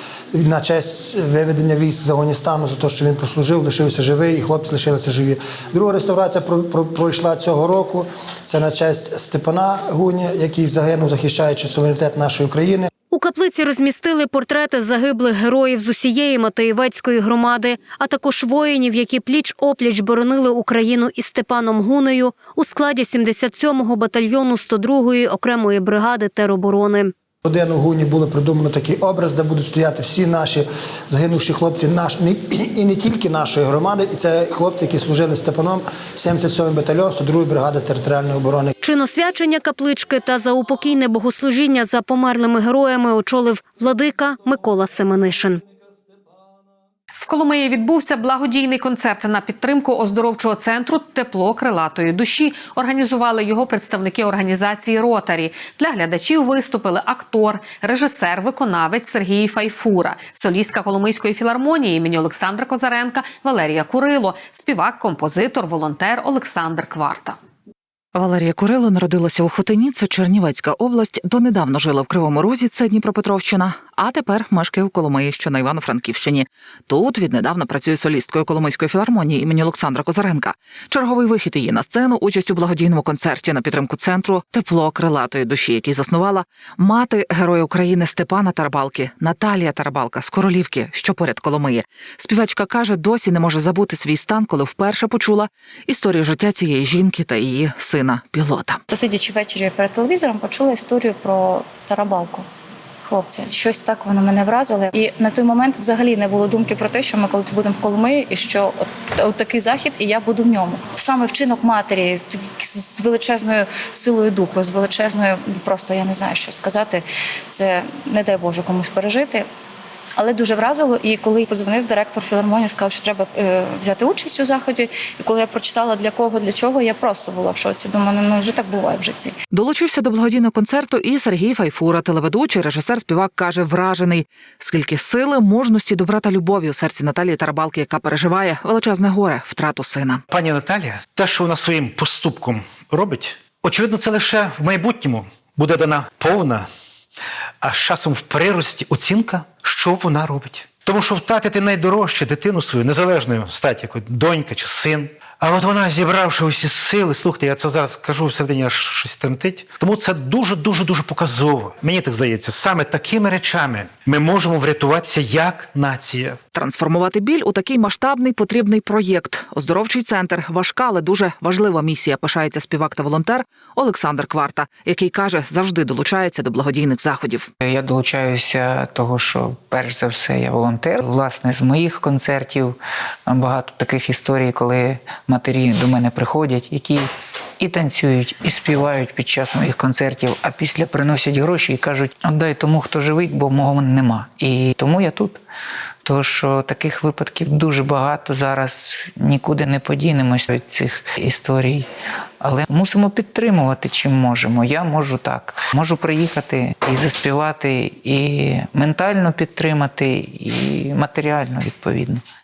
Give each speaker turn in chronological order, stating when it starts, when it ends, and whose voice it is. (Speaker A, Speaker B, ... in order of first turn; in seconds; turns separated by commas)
Speaker A: 0.3-12.9, Speaker B: 13.1-27.1, Speaker A: 27.4-38.7, Speaker B: 38.8-45.6, Speaker C: 47.2-67.4, Speaker D: 68.1-98.8, Speaker E: 98.9-102.4, Speaker E: 103.0-119.5, Speaker E: 120.2-129.3, Speaker D: 129.5-140.2, Speaker F: 140.4-146.7, Speaker F: 147.6-166.4, Speaker D: 166.6-177.5, Speaker G: 177.6-187.1, Speaker G: 187.6-195.4, Speaker G: 196.0-201.9, Speaker G: 202.4-212.2